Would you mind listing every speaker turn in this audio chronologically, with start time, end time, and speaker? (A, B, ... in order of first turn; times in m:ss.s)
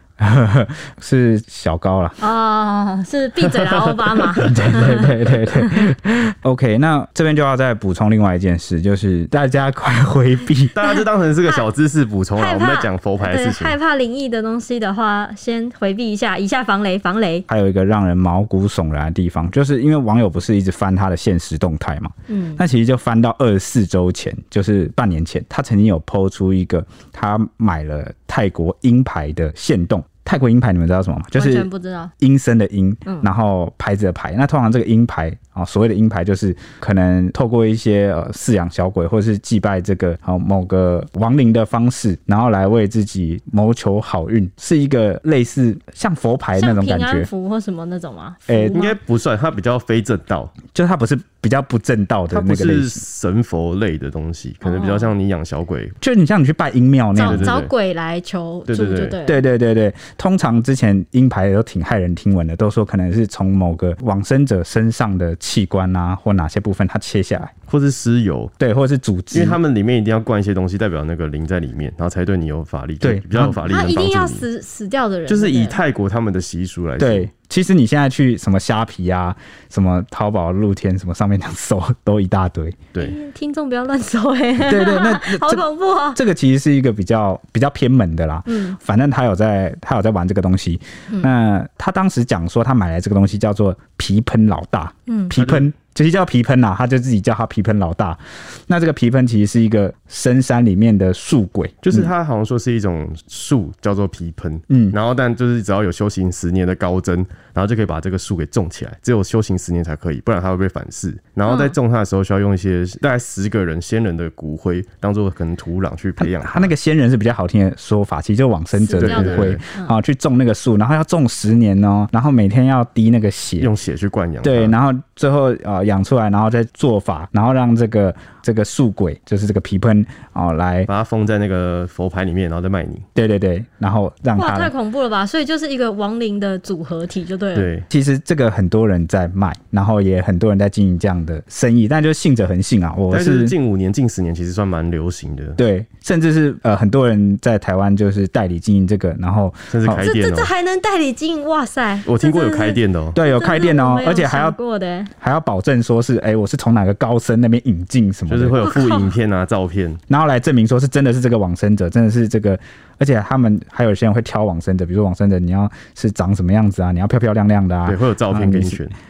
0:00.2-0:02.2 A
0:02.2-0:05.8 B
0:03.5-0:04.6 C
0:04.4-0:10.7 A
0:10.7-0:13.8 C
0:10.8-0:11.6 B
0:12.4-0:17.4 B
0:17.5-0:31.7 A
0:22.3-0:22.6 B
0:31.3-0:32.1 B
0:32.2-0:47.3 A
0:46.6-0:49.0 B
0:48.5-0:48.8 A
0:48.7-0:50.5 C
0:50.7-0:53.0 A
0:52.3-0:56.0 C
0:54.6-0:55.1 B
0:56.0-0:57.5 A
0:57.1-0:59.4 B
0:57.2-0:57.7 C
0:58.7-0:59.2 C
0:59.2-1:07.5 A
1:07.7-1:08.5 C
1:08.6-1:09.6 A
1:09.3-1:14.4 C
1:13.0-1:13.6 A
1:13.7-1:15.8 B
1:15.3-1:17.3 C
1:17.0-1:22.8 A
1:23.0-1:26.2 B
1:24.6-1:42.1 A
1:28.5-1:28.8 B
1:35.1-1:35.3 B
1:35.3-1:35.7 C
1:41.8-1:56.7 C
1:44.7-1:45.0 A
1:51.4-1:51.7 B
1:56.2-2:03.7 A
1:58.7-1:59.9 B
1:59.0-1:59.6 C
2:03.6-2:04.7 C
2:04.4-2:10.9 A
2:10.9-2:13.0 C
2:13.1-2:14.7 A
2:14.4-2:17.7 B
2:17.5-2:17.8 C
2:17.9-2:23.5 A
2:23.1-2:25.6 C
2:25.6-2:30.0 A
2:29.7-2:30.5 C
2:30.0-2:35.1 B
2:32.0-2:33.2 C
2:33.2-2:34.6 A
2:35.2-2:38.7 A
2:38.3-2:40.0 C
2:38.6-2:39.1 B
2:40.1-2:48.8 A
2:47.8-2:48.9 C